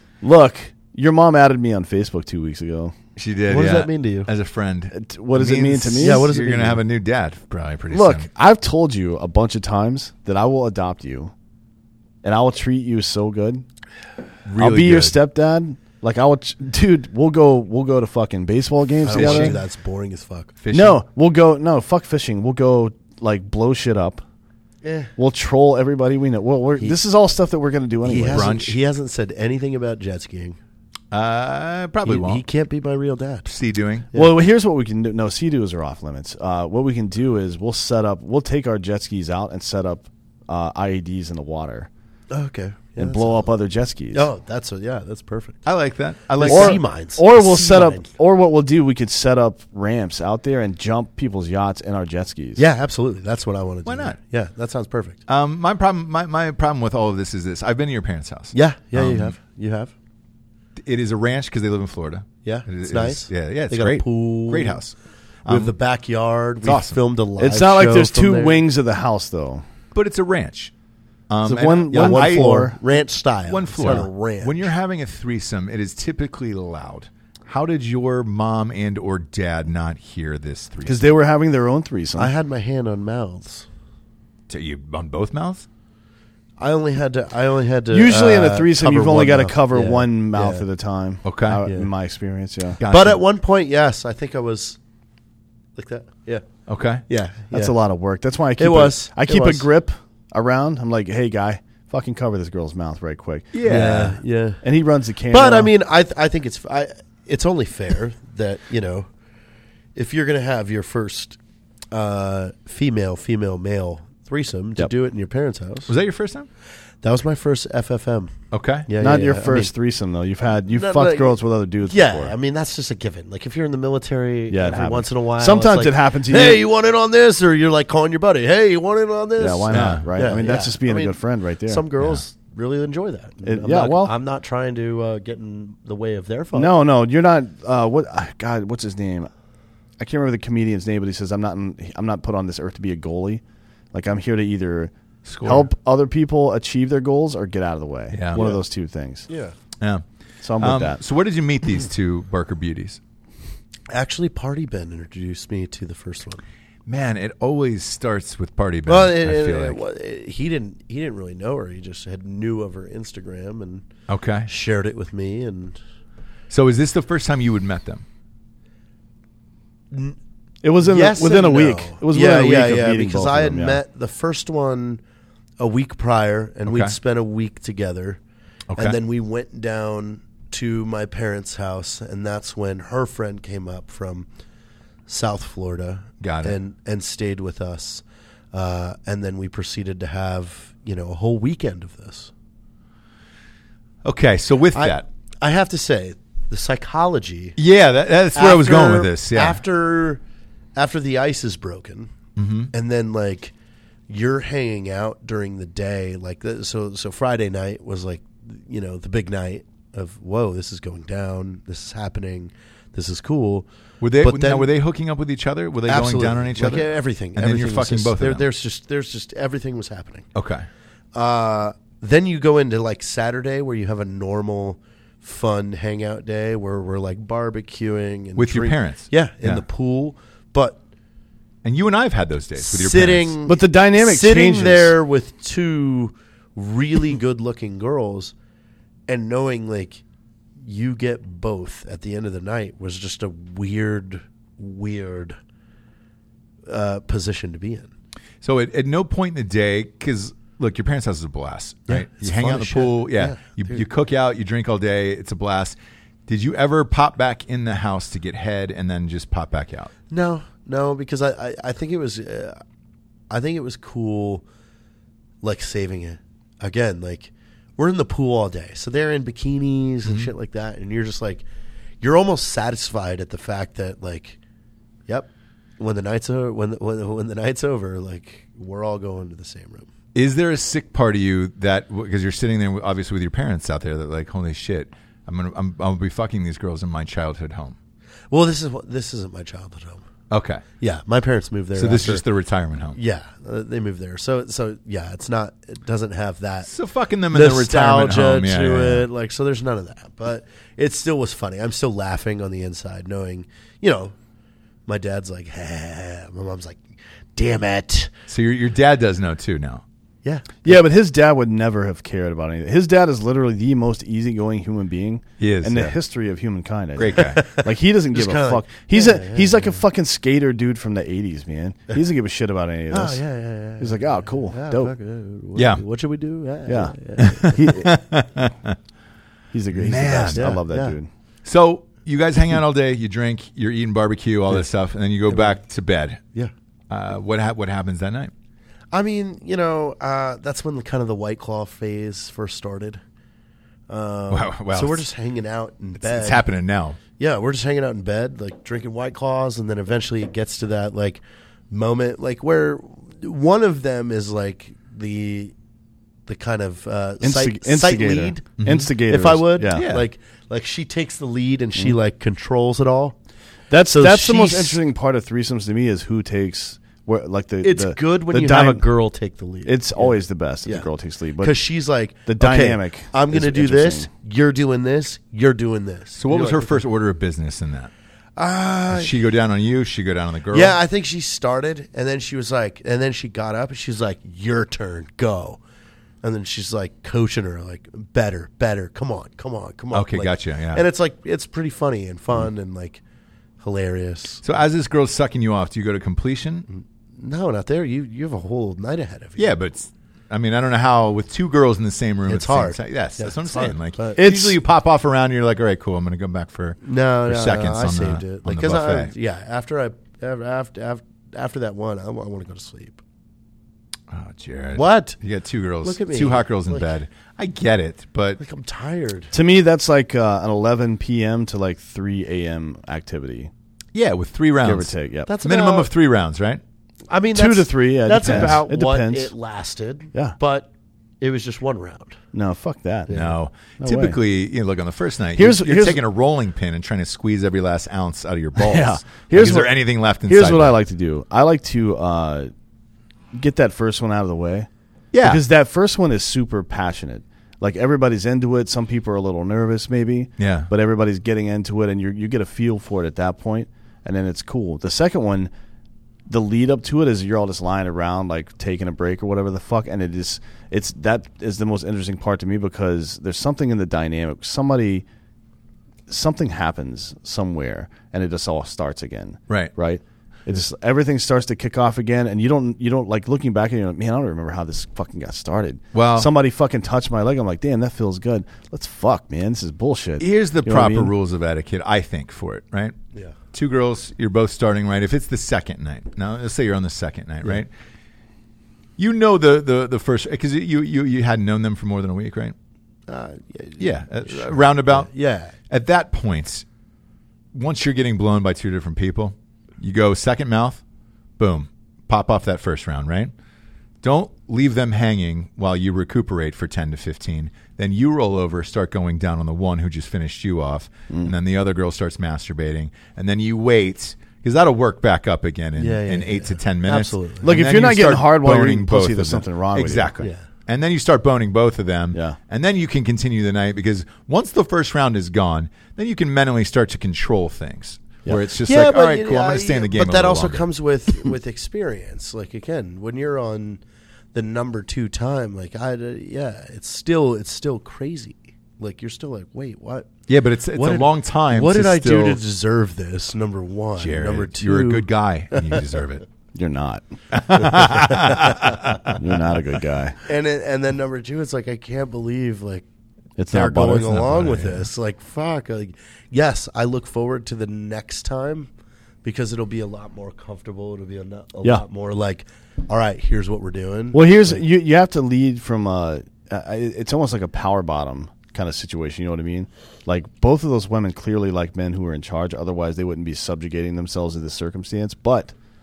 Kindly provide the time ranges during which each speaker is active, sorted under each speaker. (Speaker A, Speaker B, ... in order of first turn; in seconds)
Speaker A: 0.2-2.9, 4.9-6.3, 7.9-11.3, 12.2-13.6, 14.6-19.6, 20.7-24.2, 25.2-28.5, 34.1-41.9, 43.0-44.3, 46.4-52.6, 67.4-69.6, 71.4-72.8, 80.8-82.3, 87.9-92.8, 97.5-105.7, 119.0-122.3, 124.5-126.6, 129.4-131.8, 133.4-134.1, 136.5-139.3, 140.0-143.4, 143.9-149.3, 150.4-151.0, 170.6-173.8, 233.4-234.9, 310.6-323.2, 323.8-324.9, 326.7-327.9, 329.5-331.1, 357.2-359.9, 363.7-368.8, 369.6-371.6, 372.3-374.1, 404.1-404.5, 419.3-423.5, 424.6-425.3, 427.3-429.3, 432.3-433.2, 433.8-434.2, 435.4-436.0, 438.5-442.5, 443.3-444.7, 445.2-455.5, 456.3-465.1, 466.1-481.1, 517.4-520.2, 546.5-547.9, 549.1-550.2, 553.4-554.2, 564.1-575.5
Speaker B: 3.1-8.3, 14.4-15.2, 19.1-19.6, 20.6-21.0, 28.2-28.8, 31.1-32.4, 33.5-34.1, 45.6-46.8, 53.8-54.2, 55.3-59.3, 60.8-64.9, 65.5-65.7, 66.6-67.0, 69.9-70.7, 71.3-72.5, 73.5-81.0, 84.5-85.7, 91.2-91.6, 92.8-93.2, 96.7-97.0, 103.5-104.1, 115.9-116.5, 118.5-118.9, 129.7-130.1, 145.2-145.7, 148.1-148.4, 149.8-150.0, 150.6-153.0, 156.8-159.8, 164.1-164.5, 166.5-168.0, 176.7-176.9, 178.7-178.9, 186.2-186.6, 194.0-195.0, 197.6-199.6, 202.3-202.7, 214.0-218.4, 220.3-220.7, 228.3-229.6, 231.6-233.3, 248.4-259.9, 270.0-270.3, 280.1-287.8, 290.3-290.6, 291.7-293.0, 296.7-299.1, 308.3-309.8, 315.4-316.0, 317.0-317.4, 325.5-325.8, 327.3-328.8, 329.8-330.5, 331.4-336.2, 336.9-338.3, 344.3-345.0, 346.0-347.0, 358.6-358.9, 359.7-360.1, 376.2-377.9, 378.9-380.8, 389.9-390.8, 394.4-396.6, 399.4-409.1, 414.1-418.4, 423.9-426.6, 428.2-428.6, 433.1-440.8, 445.1-445.4, 450.4-450.7, 475.9-476.3, 480.2-482.9, 483.5-487.7, 489.0-492.5, 493.8-495.1, 495.7-496.6, 497.5-500.8, 501.4-503.3, 504.0-530.6, 540.3-542.4, 544.0-546.2, 547.3-549.1, 554.0-554.9
Speaker C: 3.5-4.3, 5.9-6.8, 19.0-20.5, 24.8-25.1, 28.0-30.6, 32.0-33.5, 42.3-43.5, 44.1-45.6, 46.3-48.1, 52.6-55.2, 58.5-59.9, 62.4-64.8, 65.5-68.6, 71.9-74.7, 82.2-83.7, 86.6-90.6, 92.8-94.8, 95.8-96.4, 97.1-97.7, 98.6-99.7, 103.6-104.6, 105.3-109.1, 109.9-111.4, 111.9-115.9, 117.0-118.3, 118.9-119.7, 120.7-136.7, 149.3-149.5, 153.9-156.4, 158.9-163.9, 164.5-165.8, 169.9-170.2, 170.8-175.0, 175.6-178.2, 178.8-184.3, 185.1-192.3, 194.7-197.6, 198.3-200.2, 200.8-202.1, 202.7-203.5, 204.1-213.7, 214.2-214.7, 215.9-220.3, 221.1-230.8, 232.6-238.3, 239.1-240.0, 240.6-245.4, 246.7-247.9, 251.9-253.8, 260.1-262.6, 263.3-264.4, 265.4-271.4, 272.0-274.4, 275.1-279.9, 288.3-290.0, 290.8-292.2, 292.9-296.7, 297.3-304.1, 304.9-306.8, 307.4-308.1, 310.2-310.7, 317.1-319.8, 322.9-327.8, 330.3-330.9, 335.3-335.6, 338.9-343.0, 343.9-346.4, 347.2-355.5, 356.3-363.1, 363.9-364.8, 367.6-370.9, 371.4-376.8, 378.4-379.2, 380.5-385.6, 386.2-393.0, 393.6-394.4, 396.7-399.5, 402.3-404.2, 406.8-413.0, 414.7-415.2, 415.8-416.9, 418.4-419.3, 425.3-425.9, 427.1-430.7, 431.2-432.2, 433.1-433.3, 493.1-495.5, 515.8-517.5, 528.6-533.8, 534.3-540.1, 540.7-545.9, 547.9-548.4, 550.2-552.8, 553.5-558.7, 559.2-564.6